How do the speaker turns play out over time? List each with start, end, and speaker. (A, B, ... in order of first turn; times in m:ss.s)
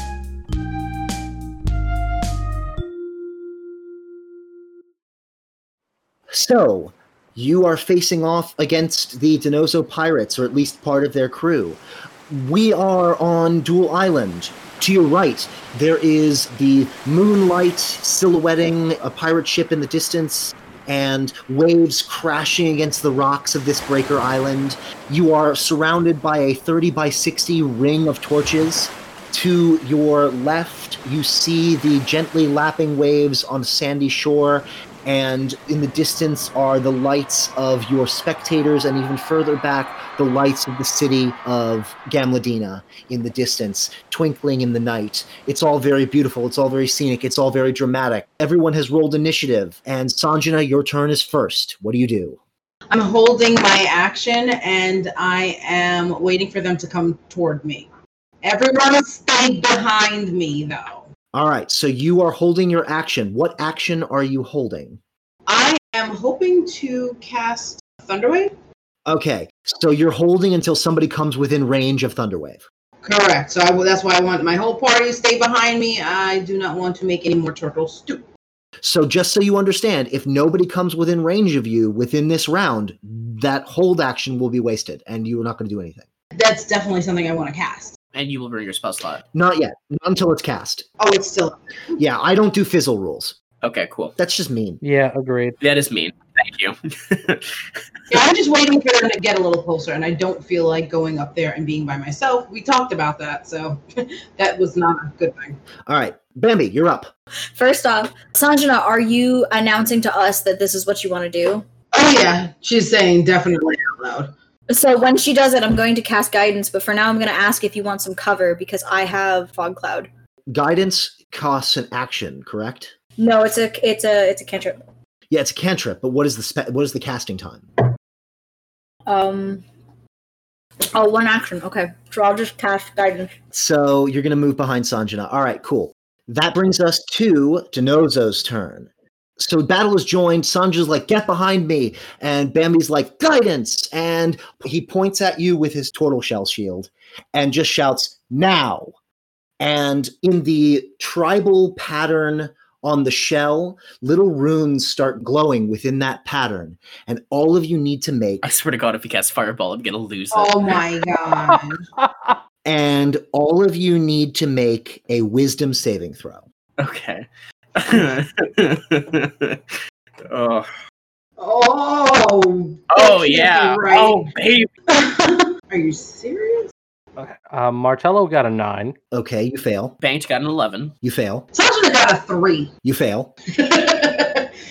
0:06.3-0:52.4 A
0:52.9-0:57.9 B
0:58.4-1:01.1 B
1:01.3-1:05.0 A
1:05.5-1:08.5 B
1:09.0-1:12.6 A
1:13.0-1:18.3 B
1:18.8-1:26.0 A
1:26.3-1:28.0 B
1:28.1-1:29.2 C
1:29.3-1:30.8 A
1:31.0-1:31.9 B
1:32.0-1:33.3 A
1:33.6-1:34.1 C
1:34.2-1:34.8 A
1:34.8-1:35.6 D
1:35.6-1:37.6 C
1:38.1-1:45.6 B
1:45.9-1:47.1 A
1:47.6-1:51.6 E
1:51.9-1:54.3 B
1:54.7-2:00.1 E
2:00.5-2:02.9 A
2:03.2-2:04.8 E
2:05.3-2:07.7 A
2:09.1-2:09.6 E
2:10.9-2:13.3 E
2:13.5-2:28.9 A
2:29.6-2:38.5 A
2:38.4-2:40.8 C
2:40.3-2:41.8 B
2:42.0-2:42.4 D
2:42.6-2:46.4 A
2:46.8-2:50.7 C
2:51.4-2:54.3 B
2:52.9-2:54.7 C
2:54.9-2:56.7 B
2:57.2-2:59.0 D
2:59.1-3:00.0 A
3:00.0-3:00.9 C
3:01.0-3:01.5 A
3:01.5-3:02.7 B
3:02.8-3:03.3 A
3:03.5-3:04.5 B